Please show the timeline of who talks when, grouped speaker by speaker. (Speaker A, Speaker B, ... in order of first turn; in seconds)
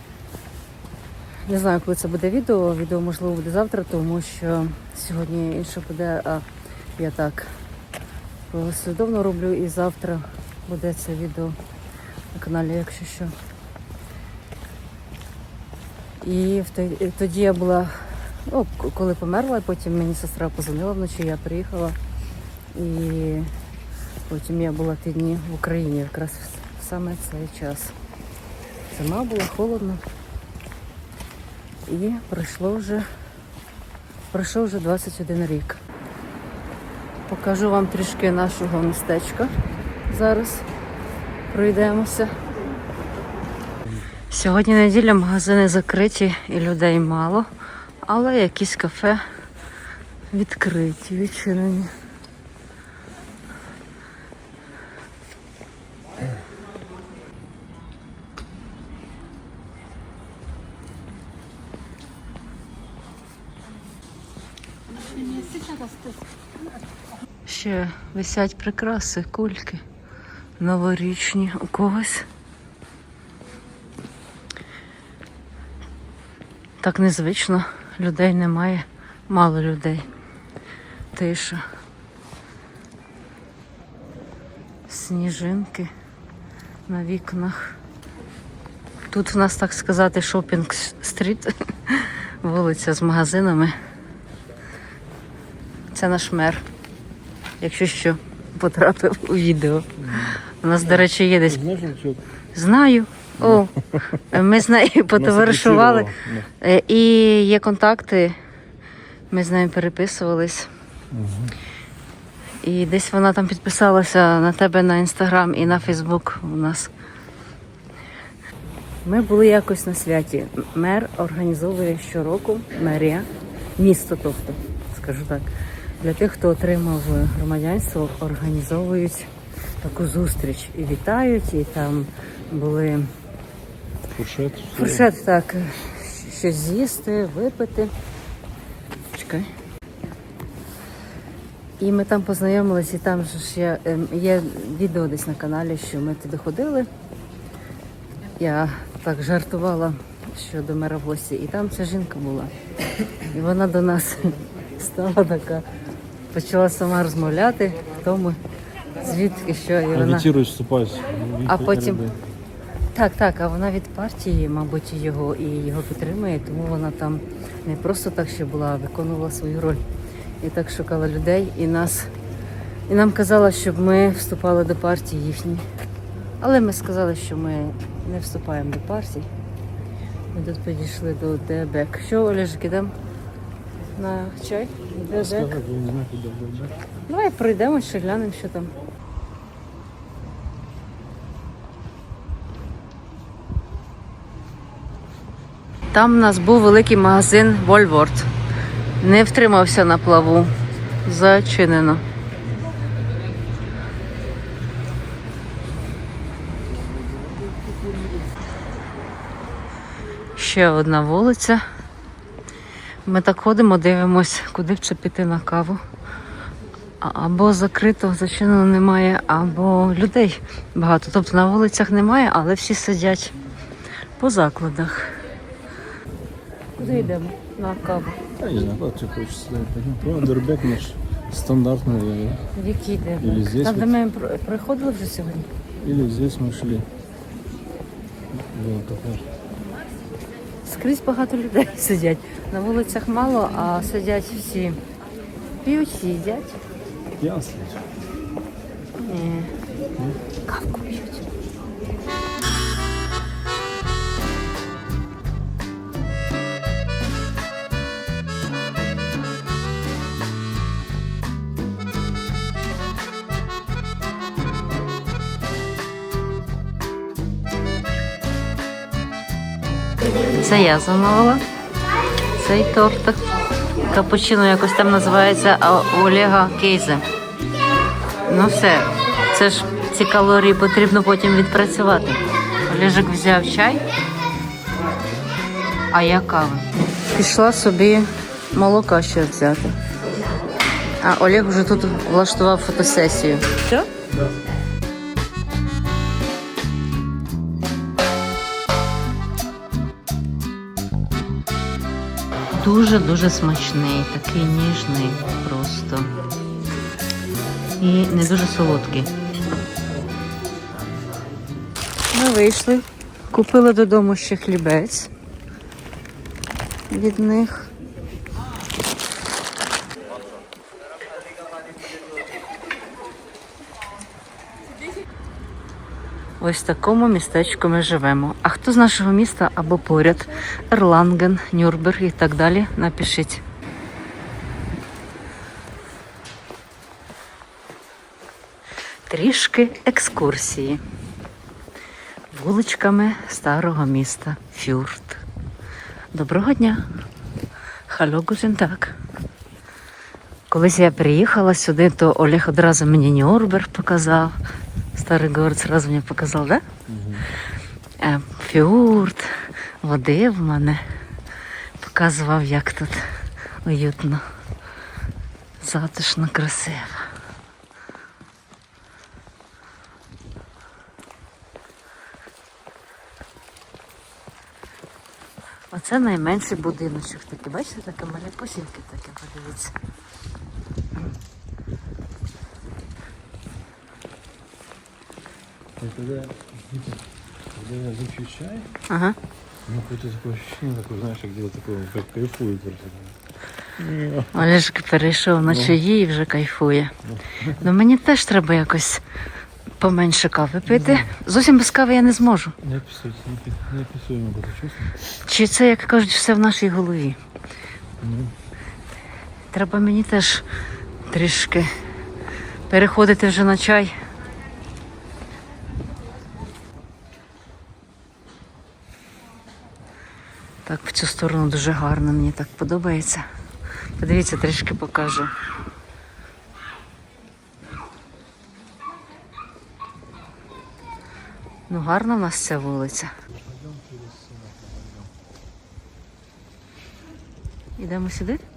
Speaker A: 1.5-6.4, 7.0-7.5, 8.5-11.6, 12.3-13.3, 16.2-22.0, 22.7-23.5, 24.3-27.9, 28.9-30.0, 31.9-33.1, 34.3-35.8, 37.3-39.5, 40.1-40.6, 41.5-42.3, 44.3-47.5, 48.0-49.2, 50.3-51.9, 67.5-69.8, 70.6-72.3, 76.8-80.1, 81.1-81.6, 84.9-85.9, 86.9-87.8, 89.1-93.7, 95.9-96.6, 97.6-99.9, 100.6-101.6, 102.5-108.3, 109.3-110.7, 112.6-116.9, 119.0-133.1, 134.7-137.9, 139.1-139.5, 141.8-146.9, 148.4-152.5, 153.3-155.6, 156.3-158.4, 159.0-160.3, 161.4-162.0, 162.9-169.8, 170.4-172.1, 172.9-175.6, 176.4-179.3, 180.3-182.9, 183.9-185.6, 187.1-188.7, 195.9-198.3, 199.0-202.0, 210.3-211.6, 213.0-215.8, 217.0-223.3, 224.2-225.2, 226.8-228.2, 232.5-235.5, 240.7-244.8, 245.6-246.6, 249.0-249.5, 250.4-251.3, 270.3-271.4, 272.3-273.2, 273.8-277.0, 278.3-283.8, 285.9-289.7, 291.0-293.9, 302.5-306.1, 307.8-309.1, 312.1-315.1, 316.9-317.7, 326.4-333.4, 339.1-340.8, 342.3-345.2, 346.1-346.8, 347.9-349.0, 350.5-354.4, 354.9-356.6, 358.0-360.8, 361.8-363.1, 363.6-364.2, 365.6-367.1, 375.7-379.7, 388.9-389.2, 394.3-396.9, 397.6-399.0, 399.8-402.6, 405.2-407.2, 409.5-410.4, 411.1-411.7, 412.7-413.9, 420.6-423.2, 424.0-425.3, 431.7-433.1, 437.8-438.4
Speaker B: 100.0-102.2, 103.4-104.4, 105.1-106.5, 111.1-111.5, 134.1-135.1, 159.9-162.2, 185.1-186.8, 226.8-227.1, 228.4-232.4, 233.2-233.9, 235.8-236.9, 238.3-239.3, 247.2-247.8, 356.9-357.3, 385.8-387.0, 387.5-388.7, 389.6-393.1, 393.8-394.5, 395.4-395.8, 397.0-397.7, 400.6-401.1, 402.6-405.0, 408.0-408.3, 433.3-435.1